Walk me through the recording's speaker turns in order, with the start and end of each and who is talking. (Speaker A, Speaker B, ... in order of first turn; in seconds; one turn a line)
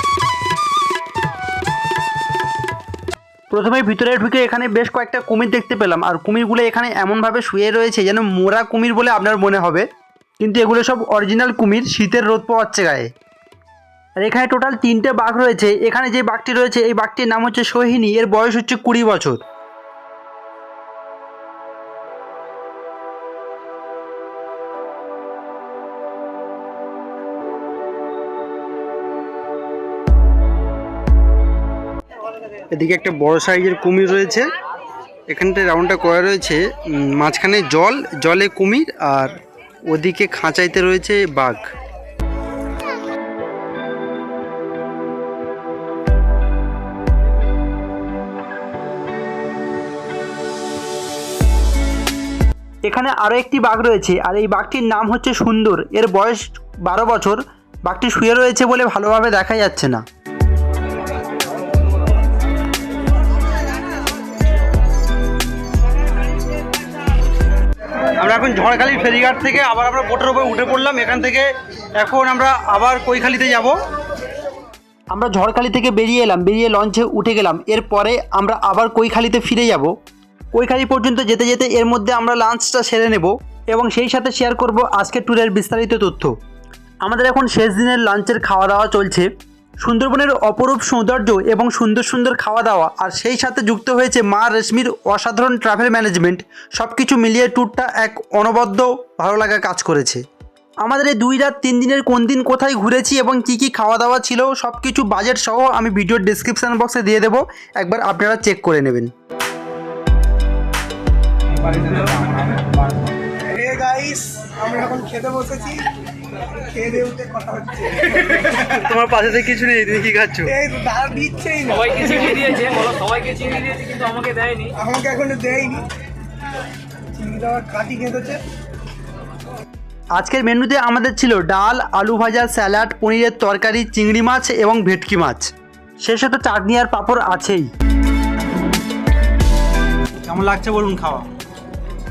Speaker A: 3.5-9.8
Speaker A: 10.4-13.1
Speaker A: 14.2-19.4
Speaker A: 32.7-34.5
Speaker A: 35.3-41.7
Speaker A: 52.8-60.0
Speaker A: 68.2-73.8
Speaker A: 75.1-79.9
Speaker A: 80.5-86.3
Speaker A: 87.0-89.3
Speaker A: 89.8-100.2
Speaker A: 100.8-109.1
Speaker B: 113.5-115.9
Speaker B: 116.6-118.1
Speaker A: 118.3-120.6
Speaker B: 120.6-122.5
Speaker C: 122.0-124.7
Speaker B: 124.8-125.9
Speaker B: 127.1-128.4
Speaker A: 130.2-135.5
Speaker A: 136.0-137.7
Speaker A: 140.2-141.3